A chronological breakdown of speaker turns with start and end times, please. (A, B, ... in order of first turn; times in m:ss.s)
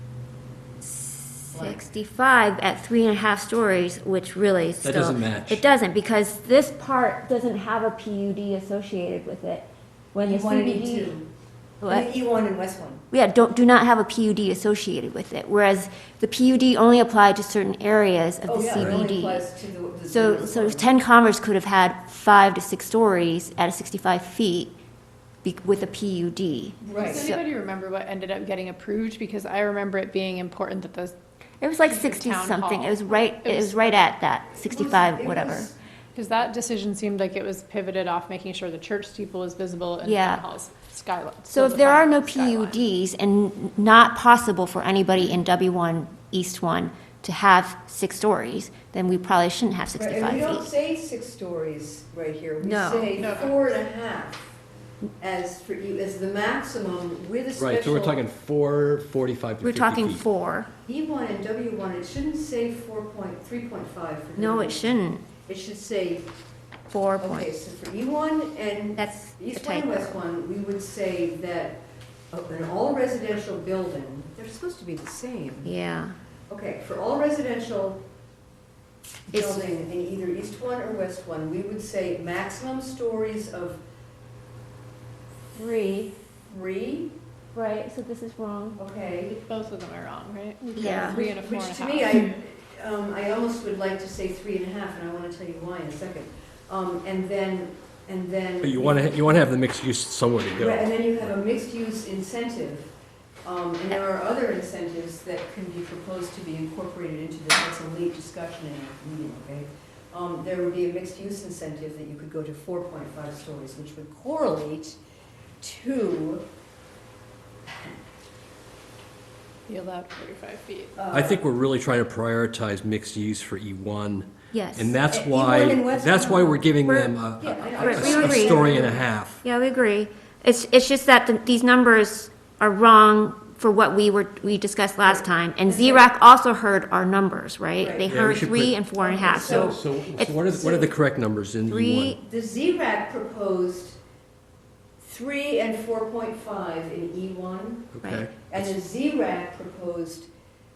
0:00.8-0:11.1 A
0:01.5-0:01.8 B
0:04.8-0:05.6 C
0:10.2-0:11.3 B
0:11.8-0:13.0 B
0:13.1-0:19.4 A
0:18.5-0:20.9 B
0:20.0-0:24.7 A
0:25.4-0:27.4 A
0:26.8-0:27.3 B
0:27.0-0:31.2 D
0:31.6-0:35.7 A
0:31.8-0:34.1 D
0:34.6-0:35.7 B
0:36.1-0:42.8 D
0:40.0-0:40.4 A
0:41.5-0:50.7 A
0:49.9-0:54.5 B
0:52.6-0:53.2 A
0:53.2-0:53.6 D
0:55.2-0:58.2 B
0:57.6-1:00.2 C
0:59.6-1:00.7 A
1:00.8-1:06.3 B
1:04.4-1:05.3 A
1:06.9-1:07.5 A
1:07.2-1:11.8 B
1:08.9-1:10.2 A
1:12.3-1:15.7 B
1:15.6-1:16.1 A
1:16.5-1:18.0 B
1:19.3-1:23.8 B
1:19.3-1:19.6 A
1:25.5-1:26.1 A
1:26.4-1:27.1 B
1:27.5-1:28.8 A
1:28.8-1:29.4 B
1:29.3-1:32.3 D
1:30.8-1:31.2 A
1:30.8-1:39.4 B
1:38.6-1:40.9 C
1:40.6-1:42.9 B
1:43.4-1:55.0 B
1:55.6-1:56.4 B
1:59.7-2:01.0 D
2:01.0-2:01.4 B
2:01.1-2:09.4 C
2:04.5-2:05.0 A
2:05.1-2:09.0 B
2:06.8-2:07.1 A
2:07.7-2:08.9 A
2:09.4-2:20.8 A
2:15.0-2:16.1 B
2:17.8-2:18.1 B
2:18.0-2:22.2 C
2:19.0-2:19.8 B
2:20.6-2:20.9 B
2:21.6-2:22.2 A
2:22.2-2:24.0 B
2:25.0-2:30.3 B
2:28.0-2:28.7 C